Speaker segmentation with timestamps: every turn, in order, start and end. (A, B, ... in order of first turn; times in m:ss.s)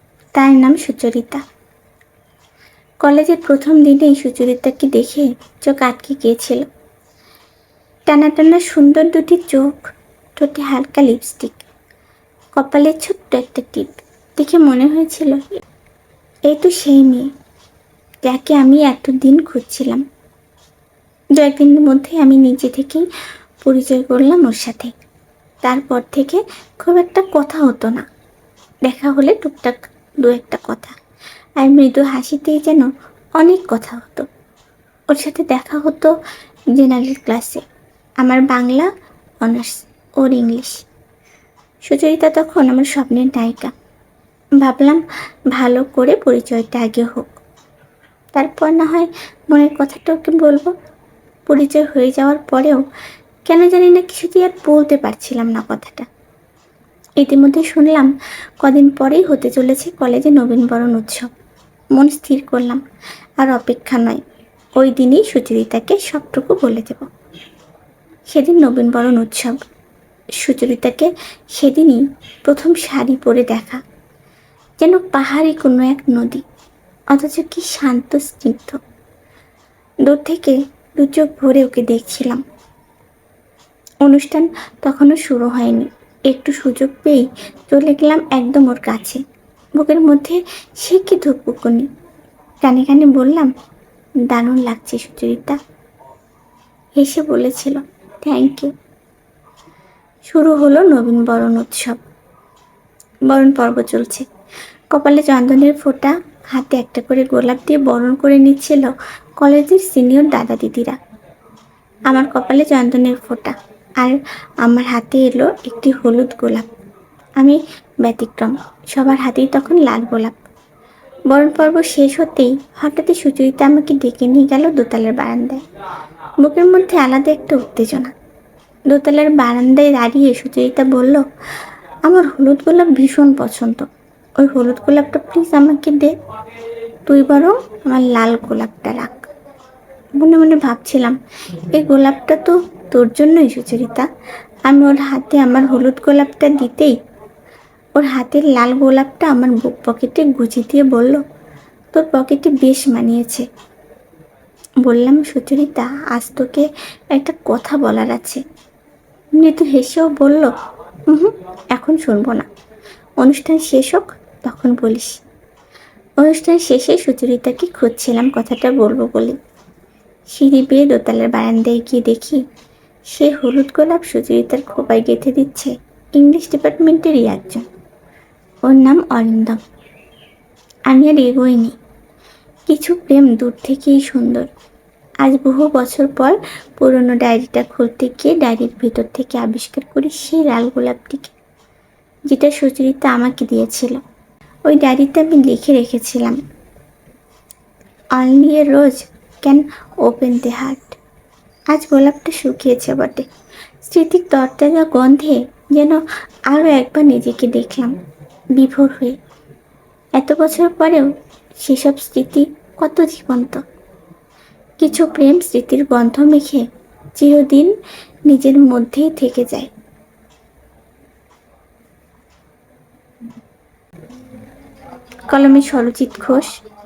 0:00.3-0:01.4 A
0:03.0-0:06.7 A
0:08.0-0:11.7 A
0:12.6-0:15.6 A
0:16.5-0:17.3 A
0:18.2-0:20.0 A
0:21.4-0:23.1 A
0:23.6-0:24.9 A
0:25.6-0:28.0 A
0:28.8-0:31.0 A
0:31.6-0:32.9 A
0:33.4-0:34.3 A
0:35.1-0:36.1 A
0:36.7-0:37.6 A
0:38.2-0:38.9 A
0:39.4-0:40.8 A
0:41.8-0:43.7 A
0:44.6-0:47.3 A
0:48.3-0:50.7 A
0:51.5-0:52.8 A
0:53.4-0:56.1 A
0:57.2-1:01.3 A
1:01.9-1:02.8 A
1:03.4-1:04.2 A
1:04.8-1:07.1 A
1:08.3-1:09.6 A
1:10.4-1:13.8 A
1:14.8-1:16.4 A
1:17.1-1:18.8 A
1:20.0-1:22.4 A
1:24.0-1:29.2 A
1:29.8-1:31.9 A
1:32.6-1:33.5 A
1:34.3-1:35.6 A
1:37.0-1:38.7 A
1:40.3-1:42.0 A
1:43.3-1:44.3 A
1:44.9-1:51.0 A
1:52.1-1:56.7 A
1:57.4-2:00.4 A
2:01.3-2:05.6 A
2:06.4-2:08.1 A
2:08.9-2:11.3 A
2:12.0-2:13.9 A
2:14.4-2:16.1 A
2:17.0-2:19.2 A
2:20.2-2:21.2 A
2:21.7-2:24.1 A
2:24.7-2:27.0 A
2:28.0-2:31.2 A
2:31.9-2:33.5 A
2:34.8-2:38.4 A
2:39.4-2:40.5 A
2:41.1-2:42.5 A
2:43.2-2:45.2 A
2:46.2-2:49.4 A
2:50.3-2:52.4 A
2:53.1-2:57.6 A
2:58.7-2:59.6 A
3:00.9-3:01.8 A
3:02.7-3:04.5 A
3:05.2-3:11.3 A
3:12.3-3:14.0 A
3:14.7-3:16.4 A
3:18.2-3:21.0 A
3:21.7-3:23.3 A
3:23.8-3:28.0 A
3:28.6-3:29.2 A
3:30.2-3:31.1 A
3:31.6-3:33.6 A
3:34.8-3:36.6 A
3:37.2-3:37.7 A
3:38.3-3:39.7 A
3:45.3-3:46.6 A